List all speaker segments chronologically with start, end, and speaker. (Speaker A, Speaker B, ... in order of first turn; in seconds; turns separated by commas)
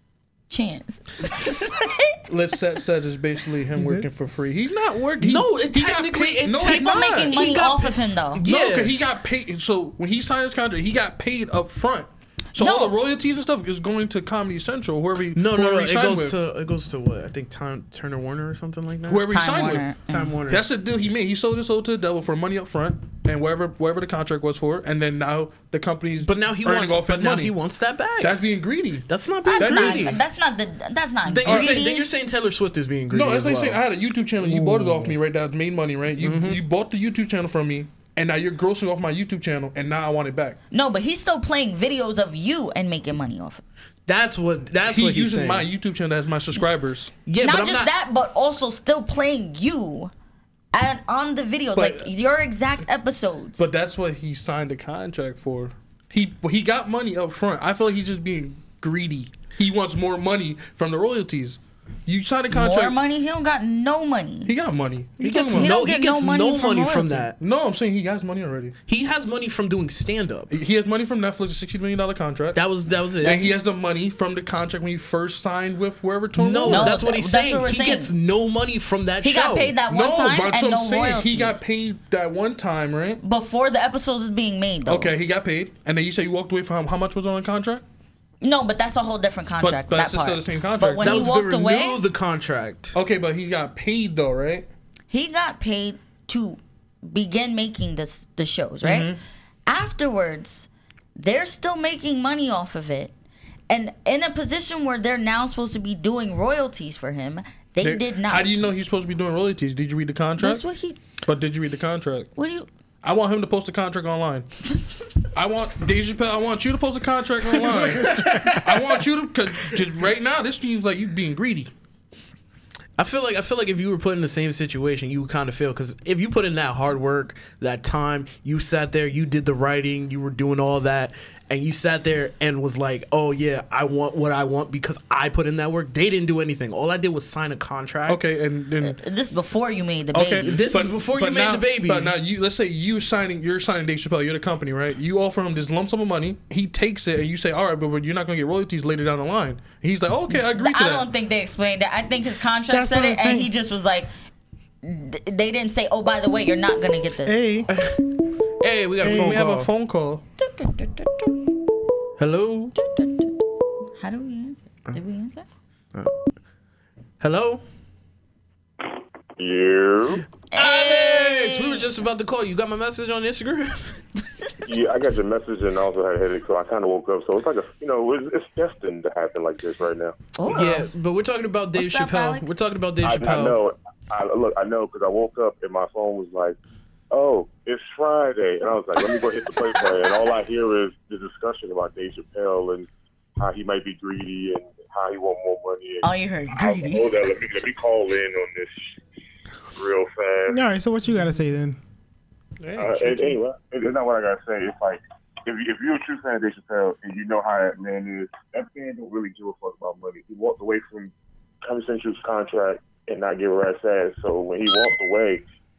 Speaker A: 0.5-2.2, Speaker B: 2.3-7.4, Speaker C: 3.8-4.0, Speaker D: 5.2-8.9, Speaker A: 6.6-8.4, Speaker B: 8.4-16.4, Speaker A: 12.6-12.9, Speaker D: 15.3-19.4, Speaker B: 19.1-19.8, Speaker A: 19.3-20.3, Speaker D: 20.1-20.6, Speaker B: 20.5-27.5, Speaker D: 26.2-28.4, Speaker B: 28.2-29.1, Speaker D: 29.1-30.2, Speaker A: 29.4-32.0, Speaker B: 29.6-30.1, Speaker D: 31.2-33.8, Speaker B: 31.4-31.8, Speaker B: 33.1-40.6, Speaker C: 34.4-35.1, Speaker D: 36.2-36.6, Speaker A: 40.7-43.6, Speaker D: 44.1-45.7, Speaker B: 44.9-47.1, Speaker D: 47.2-47.9, Speaker A: 47.4-50.1, Speaker A: 50.7-53.7, Speaker B: 51.8-52.1, Speaker B: 53.6-63.0, Speaker A: 62.5-64.5, Speaker B: 64.5-65.7, Speaker D: 65.2-67.4, Speaker A: 65.5-67.3, Speaker B: 67.4-68.8, Speaker D: 68.9-70.5, Speaker B: 70.5-72.6, Speaker D: 72.5-73.5, Speaker B: 73.2-77.0, Speaker D: 76.3-79.7, Speaker A: 76.7-78.1, Speaker A: 79.2-81.6, Speaker B: 79.9-83.2, Speaker A: 83.2-85.1, Speaker B: 84.9-87.8, Speaker A: 88.4-92.0, Speaker B: 89.6-91.2, Speaker D: 91.0-93.0, Speaker B: 92.9-94.7, Speaker A: 95.1-99.1, Speaker B: 98.8-99.2, Speaker A: 99.7-103.1, Speaker A: 103.7-108.7, Speaker B: 107.8-110.6, Speaker A: 110.4-111.0, Speaker B: 111.2-112.3, Speaker A: 112.4-112.7, Speaker B: 113.0-114.5, Speaker B: 115.2-121.7, Speaker D: 117.6-119.0, Speaker D: 123.0-138.2, Speaker B: 138.1-139.0, Speaker A: 138.8-140.5, Speaker B: 140.1-151.0, Speaker D: 140.4-142.1, Speaker A: 150.3-154.1, Speaker C: 152.7-153.5, Speaker A: 154.8-157.4, Speaker C: 157.2-157.7, Speaker D: 157.7-158.0, Speaker D: 158.6-159.7, Speaker C: 159.0-159.3, Speaker B: 159.0-160.2, Speaker A: 160.4-161.4, Speaker D: 162.2-162.7, Speaker A: 162.7-163.4, Speaker A: 164.0-165.4, Speaker D: 165.9-166.2, Speaker D: 167.2-167.6, Speaker E: 169.4-170.2, Speaker A: 170.5-171.8, Speaker D: 170.5-174.0, Speaker E: 174.6-180.2, Speaker A: 180.4-180.9, Speaker D: 180.5-183.6, Speaker A: 181.8-182.5, Speaker E: 183.0-186.6, Speaker E: 187.1-199.0, Speaker A: 196.0-197.1, Speaker E: 199.7-200.6, Speaker C: 200.5-201.8, Speaker B: 202.6-203.4, Speaker E: 202.8-215.4